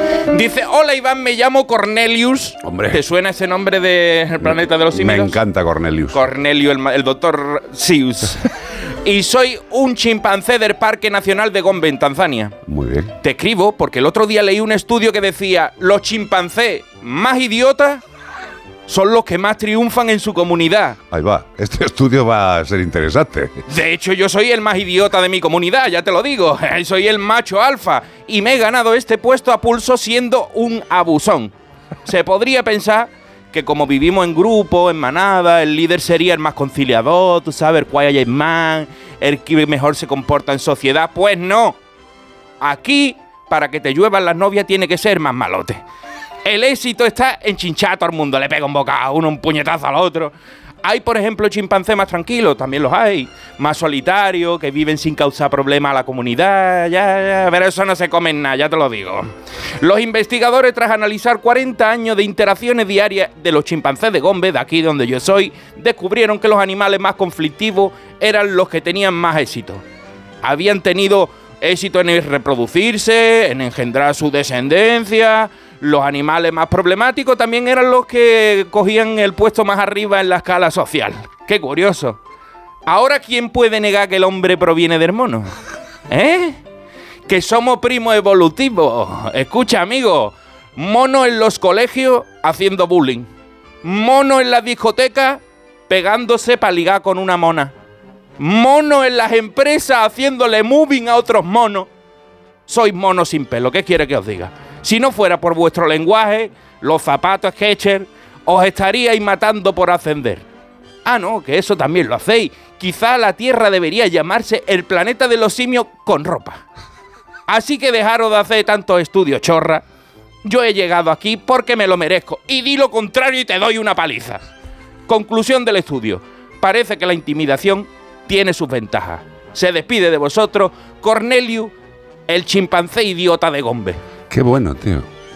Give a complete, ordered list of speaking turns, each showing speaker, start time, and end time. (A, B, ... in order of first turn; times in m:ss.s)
0:00.3-0:05.4 A
0:02.6-0:03.0 B
0:04.4-0:06.2 B
0:06.1-0:08.5 A
0:09.0-0:12.6 A
0:12.6-0:13.1 B
0:13.2-0:18.0 A
0:18.9-0:21.0 A
0:21.1-0:23.6 B
0:23.7-0:31.5 A
0:32.0-0:41.8 A
0:42.6-0:45.8 A
0:46.4-1:09.8 A
1:10.4-1:22.2 A
1:22.8-1:25.5 A
1:26.1-1:26.6 A
1:27.3-1:33.3 A
1:33.8-1:37.7 A
1:38.4-1:41.9 A
1:42.6-1:50.4 A
1:51.0-1:56.6 A
1:57.5-1:59.8 A
2:00.4-2:04.4 A
2:05.1-2:11.7 A
2:12.3-2:14.0 A
2:14.3-2:15.1 B